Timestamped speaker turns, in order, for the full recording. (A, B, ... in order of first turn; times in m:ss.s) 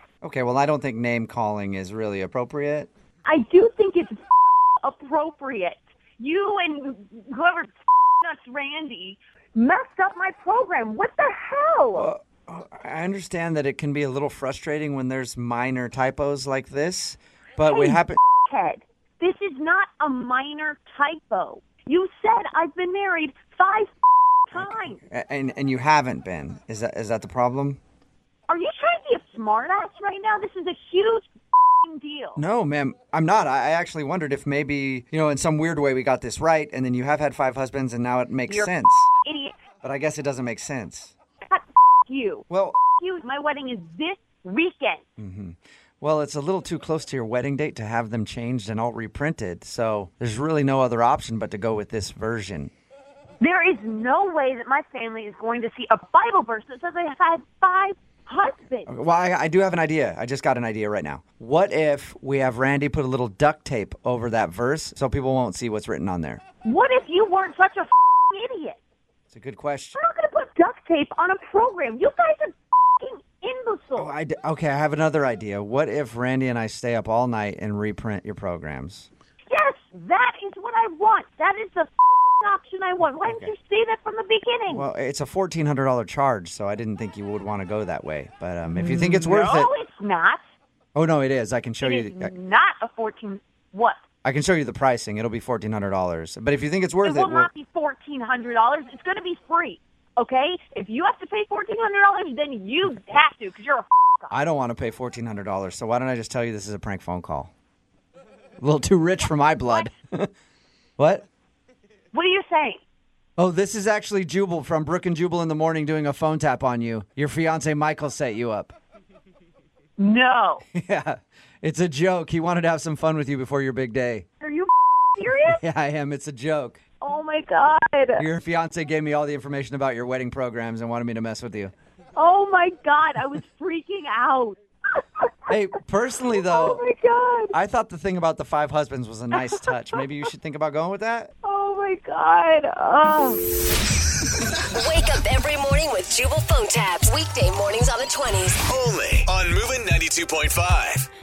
0:00.2-0:02.9 A
0:03.2-0:04.2 B
0:04.8-0:12.1 B
0:12.0-0:18.2 A
0:17.7-0:23.9 B
0:24.5-0:25.0 B
0:24.5-0:27.8 A
0:28.5-0:31.3 B
0:31.8-0:32.4 B
0:32.4-0:39.1 A
0:38.5-0:39.5 B
0:39.8-0:41.1 A
0:41.5-0:42.4 B
0:42.5-0:42.8 A
0:43.0-0:45.0 B
0:45.2-0:52.7 A
0:53.4-0:58.9 B
0:58.9-1:06.4 A
1:06.6-1:08.8 B
1:09.3-1:10.0 A
1:10.0-1:14.1 B
1:14.0-1:19.1 A
1:19.5-1:24.9 B
1:23.3-1:23.5 A
1:24.7-1:29.7 A
1:28.8-1:30.4 B
1:31.0-1:32.3 A
1:31.8-1:34.0 B
1:34.2-1:37.5 A
1:37.0-1:44.4 B
1:44.3-1:47.5 A
1:48.6-1:50.3 A
1:51.0-1:51.3 A
1:52.1-1:52.8 B
1:53.4-1:58.8 A
2:00.0-2:00.6 B
2:00.7-2:04.3 A
2:04.4-2:05.6 B
2:05.5-2:06.8 A
2:07.0-2:08.3 B
2:08.2-2:11.7 A
2:12.2-2:15.2 B
2:15.5-2:16.8 A
2:16.3-2:17.5 B
2:17.5-2:21.3 A
2:19.4-2:19.7 B
2:21.4-2:23.4 B
2:24.7-2:28.6 C
2:28.7-2:31.1 D